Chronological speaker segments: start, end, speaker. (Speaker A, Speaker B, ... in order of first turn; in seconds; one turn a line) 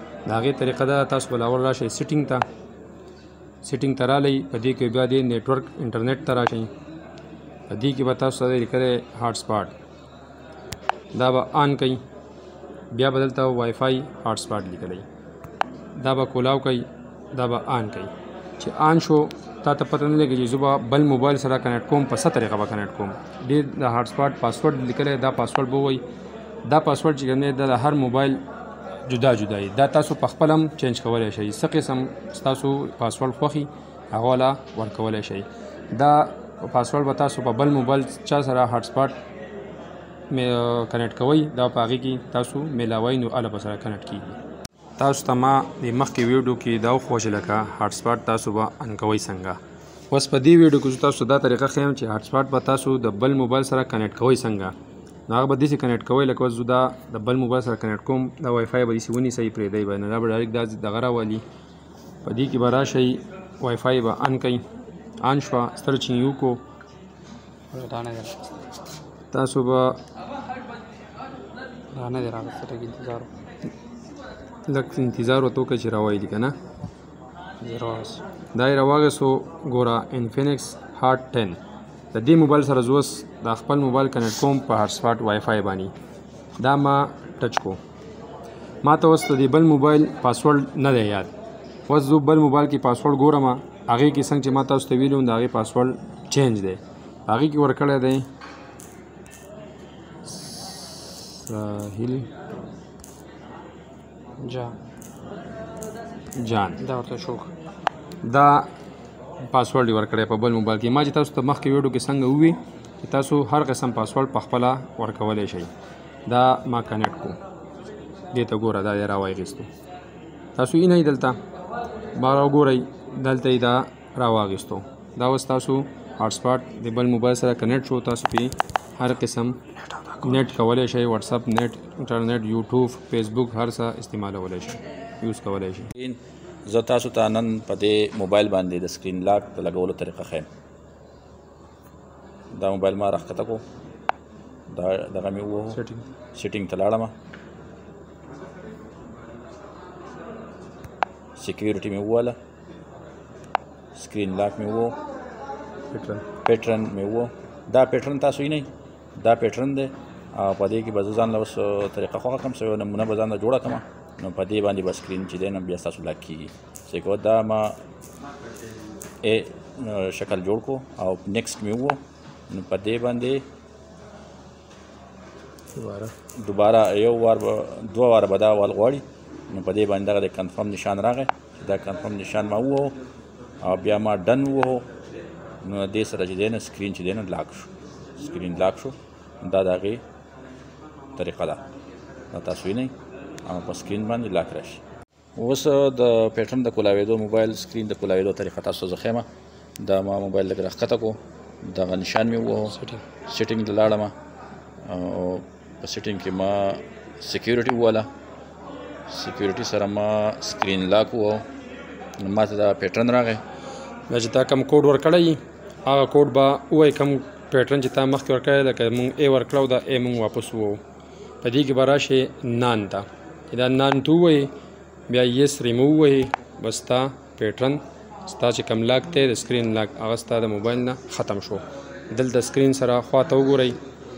Speaker A: 0.2-2.4
Speaker A: 3.6-6.7
Speaker A: 7.7-9.8
Speaker A: 11.1-12.0
Speaker A: 12.9-15.1
Speaker A: 15.9-26.0
Speaker A: 26.6-28.4
Speaker A: 29.1-39.2
Speaker A: 40.3-44.4
Speaker A: 45.0-49.6
Speaker A: 50.1-54.7
Speaker A: 55.3-61.4
Speaker A: 62.2-64.6
Speaker A: 65.2-66.6
Speaker B: 67.7-68.4
Speaker A: 69.3-70.0
Speaker B: 71.9-73.3
Speaker A: 74.7-76.5
Speaker B: 77.6-78.2
Speaker A: 78.5-81.6
Speaker A: 82.1-85.9
Speaker A: 86.5-87.8
Speaker A: 88.8-91.3
Speaker A: 91.8-98.3
Speaker A: 100.2-102.3
Speaker B: 104.4-104.8
Speaker A: 106.4-106.8
Speaker B: 106.8-107.5
Speaker A: 108.2-108.7
Speaker A: 109.4-115.7
Speaker A: 116.2-117.4
Speaker A: 118.3-119.7
Speaker A: 120.5-121.4
Speaker A: 122.1-135.9
Speaker C: 135.9-140.5
Speaker C: 142.5-143.6
Speaker C: 144.7-145.8
Speaker A: 145.7-146.1
Speaker C: 146.3-147.1
Speaker C: 151.4-152.3
Speaker C: 153.9-155.0
Speaker A: 155.9-156.2
Speaker C: 156.4-167.8
Speaker C: 169.2-173.5
Speaker A: 175.7-176.1
Speaker C: 176.3-183.0
Speaker C: 183.6-184.9
Speaker C: 185.6-190.0
Speaker C: 191.2-191.6
Speaker C: 192.3-194.8
Speaker C: 195.3-199.2
Speaker C: 199.8-204.1
Speaker C: 204.8-208.1
Speaker C: 209.1-211.4
Speaker C: 212.2-213.4
Speaker A: 214.1-220.8
Speaker A: 221.4-224.5
Speaker A: 225.1-233.8